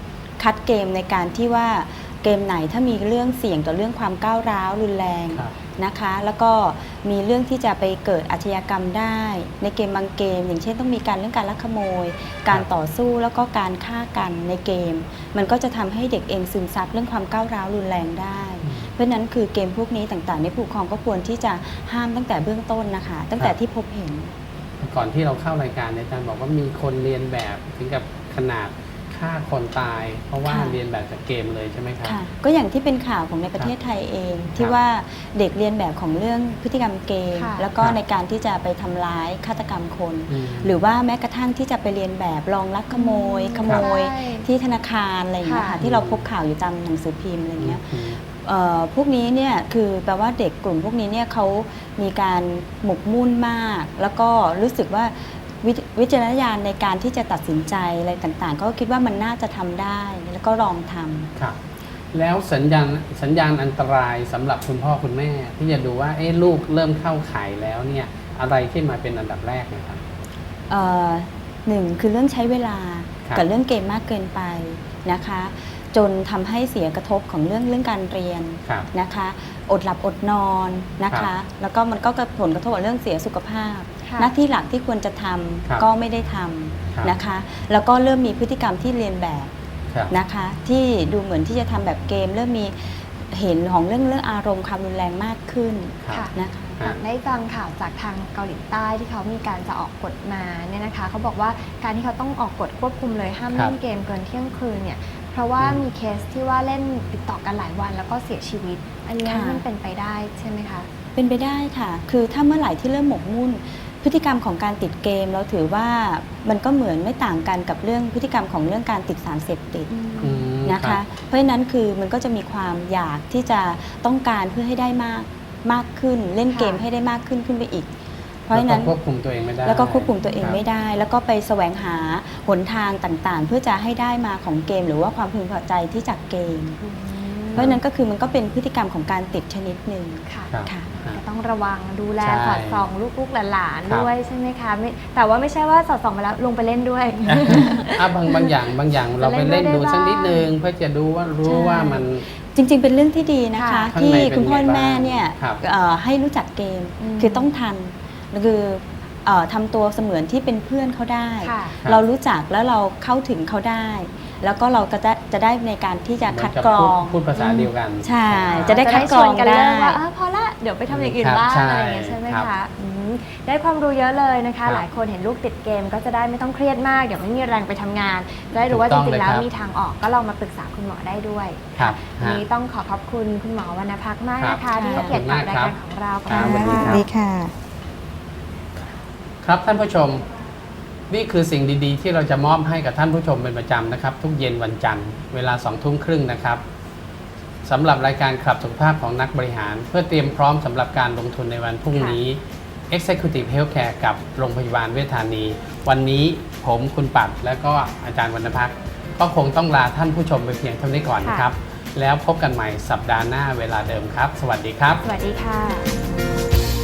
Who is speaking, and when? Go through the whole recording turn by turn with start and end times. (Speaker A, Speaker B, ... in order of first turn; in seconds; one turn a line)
Speaker A: 0.4-24.3
Speaker B: 18.6-18.9
Speaker B: 24.8-32.2
Speaker A: 30.4-30.8
Speaker A: 32.0-61.3
Speaker C: 37.3-37.7
Speaker B: 40.3-40.8
Speaker C: 42.9-44.5
Speaker C: 45.4-45.8
Speaker B: 45.8-46.3
Speaker B: 47.6-48.2
Speaker B: 62.1-70.0
Speaker A: 70.7-89.5
Speaker C: 84.0-84.3
Speaker A: 90.1-96.8
Speaker C: 96.1-110.9
Speaker B: 103.5-103.8
Speaker B: 105.6-105.8
Speaker A: 109.2-109.6
Speaker A: 111.2-127.9
Speaker C: 119.9-120.5
Speaker B: 120.2-121.0
Speaker C: 126.5-126.8
Speaker A: 128.5-128.9
Speaker B: 128.5-130.6
Speaker A: 129.6-136.8
Speaker C: 130.2-130.6
Speaker C: 136.8-137.8
Speaker A: 137.5-140.9
Speaker C: 140.2-148.5
Speaker B: 140.5-141.2
Speaker B: 142.2-142.8
Speaker B: 147.2-152.2
Speaker C: 149.2-150.5
Speaker A: 151.4-170.0
Speaker C: 153.6-153.9
Speaker B: 153.9-155.6
Speaker C: 157.0-157.5
Speaker C: 161.4-161.8
Speaker B: 166.3-169.2
Speaker C: 167.4-167.7
Speaker C: 168.5-187.1
Speaker B: 170.9-172.5
Speaker B: 178.7-179.5
Speaker B: 181.8-182.4
Speaker B: 184.4-187.1
Speaker A: 184.8-185.1
Speaker A: 186.3-187.5
Speaker B: 189.4-190.2
Speaker B: 191.1-196.6
Speaker B: 197.6-215.0
Speaker C: 201.9-202.2
Speaker C: 211.2-211.5
Speaker C: 215.0-215.9